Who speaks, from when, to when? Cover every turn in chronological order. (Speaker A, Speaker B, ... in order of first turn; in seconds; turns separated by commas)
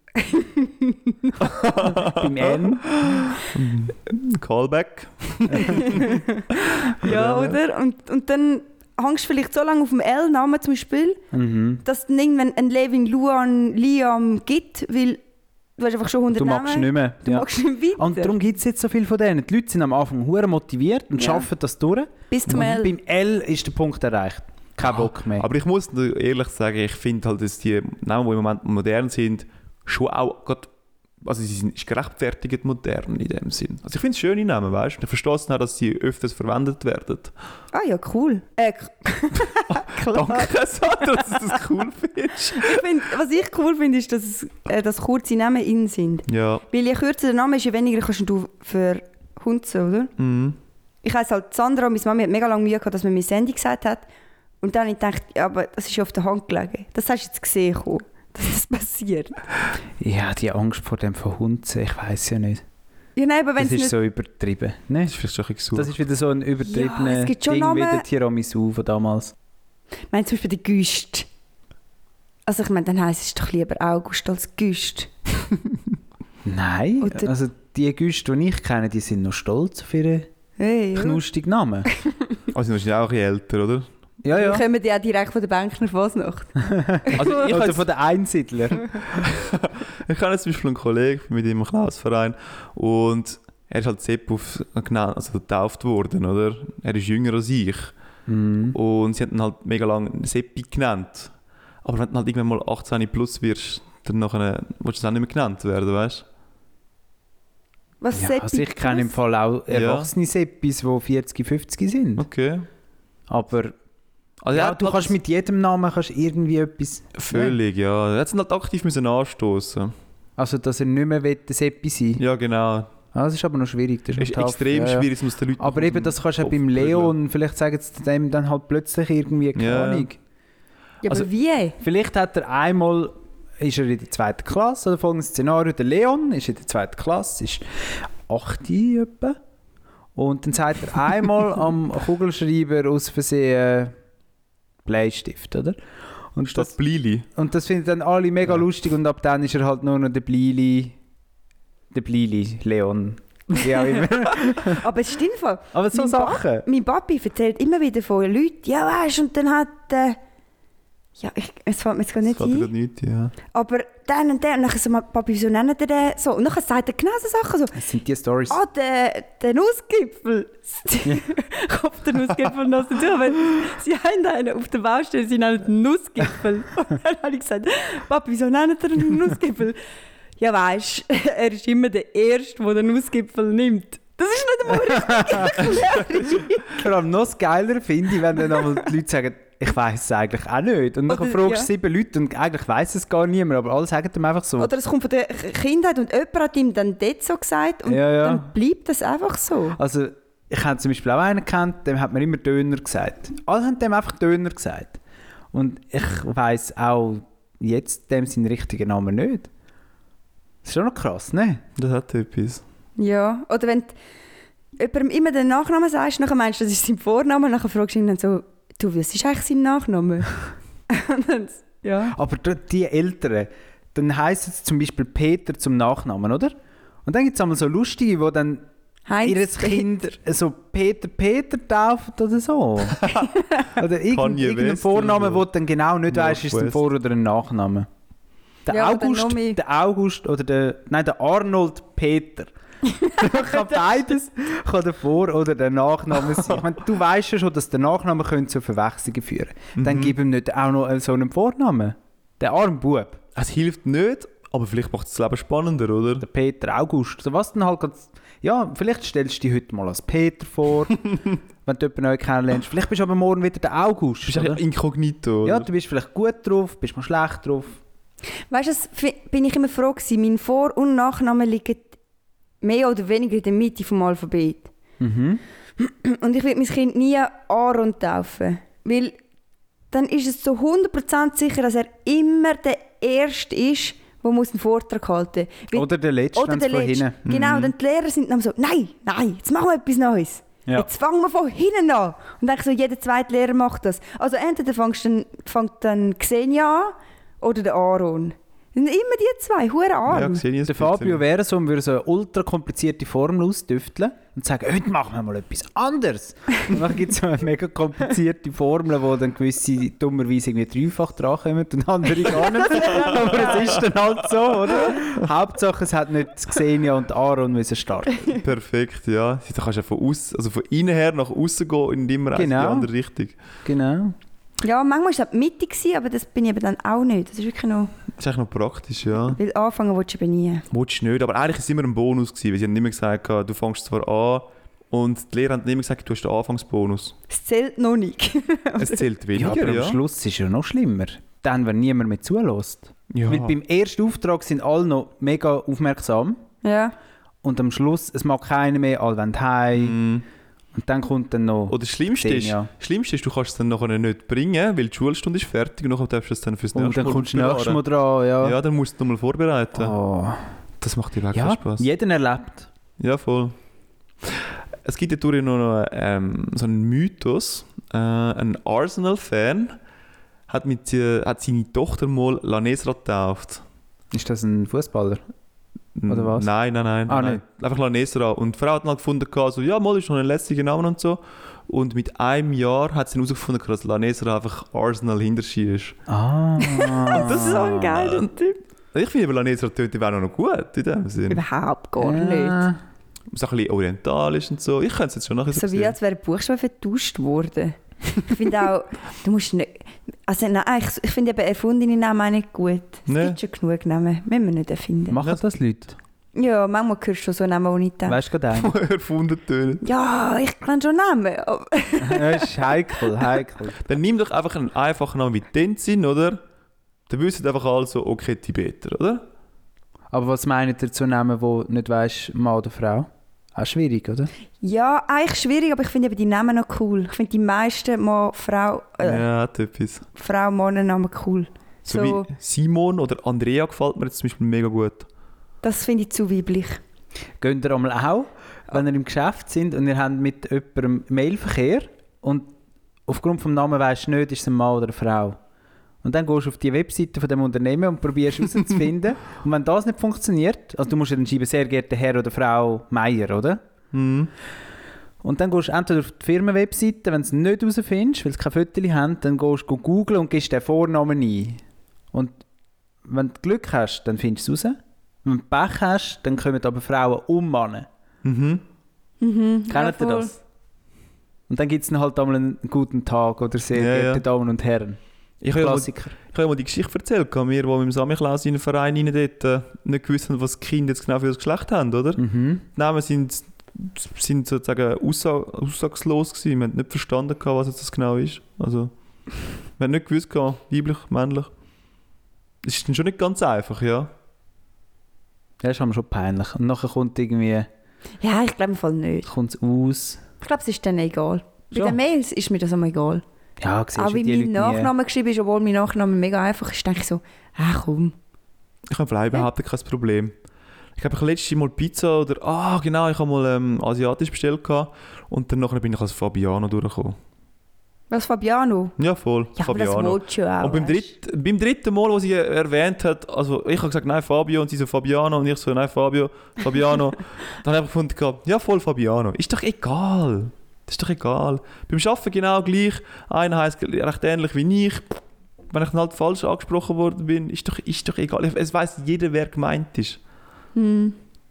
Speaker A: 0.1-1.3, Speaker B: 1.4-7.6, Speaker C: 1.7-2.9, Speaker C: 5.5-5.8, Speaker A: 5.6-11.2, Speaker C: 11.3-11.8, Speaker A: 11.8-15.2, Speaker A: 15.8-18.3, Speaker C: 16.3-25.5, Speaker A: 21.2-21.5, Speaker A: 22.3-22.9, Speaker B: 24.8-30.7, Speaker B: 31.2-37.3, Speaker A: 37.7-40.5, Speaker B: 39.7-42.9, Speaker A: 41.1-41.4, Speaker A: 42.6-50.1, Speaker B: 46.3-46.6, Speaker B: 50.2-50.6, Speaker A: 51.0-54.0, Speaker A: 54.6-59.4, Speaker C: 60.0-62.6, Speaker A: 63.1-63.9, Speaker C: 63.6-65.1, Speaker B: 65.0-66.0, Speaker C: 65.7-69.3, Speaker A: 66.6-68.0, Speaker A: 70.1-71.2, Speaker A: 72.5-75.1, Speaker C: 76.4-80.3, Speaker A: 77.0-77.3, Speaker A: 80.6-81.2, Speaker C: 80.9-81.9, Speaker A: 81.9-82.4, Speaker B: 82.5-83.9, Speaker C: 84.2-84.6, Speaker A: 84.3-87.6, Speaker C: 86.6-88.9, Speaker B: 87.2-87.8, Speaker B: 89.1-97.9, Speaker C: 98.3-98.8, Speaker B: 98.7-101.3, Speaker B: 101.8-106.2, Speaker A: 108.0-109.1, Speaker C: 108.1-112.2, Speaker B: 109.7-110.1, Speaker B: 112.2-112.7, Speaker C: 113.3-113.8, Speaker B: 114.4-115.1, Speaker C: 114.5-117.5, Speaker B: 117.2-119.9, Speaker C: 120.4-122.2, Speaker B: 122.2-122.9, Speaker C: 123.1-130.2, Speaker B: 124.2-127.1, Speaker B: 129.5-130.1, Speaker A: 131.0-131.8, Speaker C: 131.8-139.4, Speaker C: 140.2-143.9, Speaker C: 144.8-145.8, Speaker C: 146.3-146.7, Speaker B: 146.5-147.3, Speaker C: 147.3-150.9, Speaker C: 151.9-154.8, Speaker A: 153.8-160.2, Speaker C: 155.7-156.7, Speaker A: 161.2-162.7, Speaker B: 162.2-163.3, Speaker A: 163.5-167.8, Speaker C: 167.8-168.6, Speaker A: 168.5-179.8, Speaker A: 180.4-186.8, Speaker C: 184.7-185.6, Speaker C: 186.6-194.7, Speaker A: 188.4-188.8, Speaker A: 191.1-191.7, Speaker A: 194.6-199.8, Speaker C: 197.8-198.5, Speaker C: 199.8-205.0, Speaker C: 205.5-209.5, Speaker C: 210.6-211.6, Speaker B: 211.8-212.6, Speaker A: 213.0-213.9, Speaker A: 214.8-222.1, Speaker C: 222.1-226.5, Speaker C: 227.0-228.6, Speaker A: 229.1-229.9, Speaker C: 229.2-233.1, Speaker C: 233.8-237.9, Speaker B: 234.0-235.5, Speaker B: 236.1-236.8, Speaker C: 238.7-253.2, Speaker A: 238.7-239.6, Speaker A: 242.9-243.6, Speaker B: 249.8-250.2, Speaker B: 253.3-256.2, Speaker C: 256.2-261.0, Speaker C: 261.6-264.6, Speaker B: 264.3-265.7, Speaker C: 265.4-267.8, Speaker A: 268.5-271.9, Speaker A: 272.6-274.7, Speaker C: 275.0-275.4, Speaker A: 275.8-279.2, Speaker A: 279.9-300.4, Speaker C: 285.7-287.2, Speaker B: 287.2-287.7, Speaker B: 300.1-301.2, Speaker C: 300.7-318.3, Speaker A: 312.4-313.6, Speaker B: 318.3-323.4, Speaker C: 322.3-322.9, Speaker C: 323.6-324.1, Speaker A: 324.6-327.9, Speaker B: 328.2-329.4, Speaker A: 329.3-330.7, Speaker B: 330.7-337.2, Speaker A: 337.3-339.1, Speaker B: 338.8-340.0, Speaker C: 339.3-346.4, Speaker B: 343.1-343.6, Speaker A: 346.6-346.9, Speaker C: 347.4-350.0, Speaker B: 349.7-350.2, Speaker C: 350.7-352.7, Speaker B: 351.7-357.8, Speaker C: 356.7-358.6, Speaker B: 358.4-359.9, Speaker C: 359.7-360.5, Speaker B: 360.8-361.9, Speaker C: 361.3-362.7, Speaker B: 363.0-363.6, Speaker B: 364.2-369.8, Speaker B: 370.5-373.6, Speaker C: 374.1-375.2, Speaker B: 375.9-386.0, Speaker C: 376.1-376.5, Speaker C: 377.1-377.4, Speaker C: 386.1-387.6, Speaker A: 386.7-388.6, Speaker B: 387.1-388.3, Speaker B: 388.9-391.4, Speaker A: 391.3-392.7, Speaker C: 392.0-392.8, Speaker B: 393.3-395.9, Speaker A: 395.5-405.2, Speaker B: 403.1-403.4, Speaker C: 405.1-406.0, Speaker A: 406.3-408.2, Speaker C: 408.1-408.7, Speaker B: 408.6-409.8, Speaker A: 409.8-412.7, Speaker C: 412.0-413.8, Speaker B: 413.8-416.4, Speaker B: 417.1-419.2, Speaker C: 420.1-424.3, Speaker A: 424.6-429.2, Speaker B: 429.0-430.1, Speaker A: 430.2-432.3, Speaker B: 431.9-435.1, Speaker A: 435.6-436.8, Speaker C: 437.4-442.5, Speaker C: 443.1-445.4, Speaker C: 446.0-453.6, Speaker B: 453.9-454.3, Speaker C: 455.2-461.6, Speaker C: 462.1-462.4, Speaker C: 463.1-467.9, Speaker B: 468.2-468.6, Speaker A: 469.2-470.3, Speaker C: 469.7-470.4, Speaker C: 471.5-475.0, Speaker B: 473.7-474.2, Speaker B: 475.4-482.2, Speaker C: 475.5-476.1, Speaker C: 482.2-482.6, Speaker B: 482.7-488.9, Speaker B: 489.8-491.5, Speaker B: 492.6-494.1, Speaker C: 495.6-497.7, Speaker A: 498.2-499.3, Speaker C: 499.2-500.2, Speaker A: 500.4-503.2, Speaker C: 503.6-504.9, Speaker A: 503.9-508.1, Speaker B: 508.9-510.3, Speaker B: 511.0-517.2, Speaker A: 518.1-518.9, Speaker B: 519.0-535.1, Speaker A: 519.6-521.1, Speaker B: 535.7-540.2, Speaker A: 540.7-541.2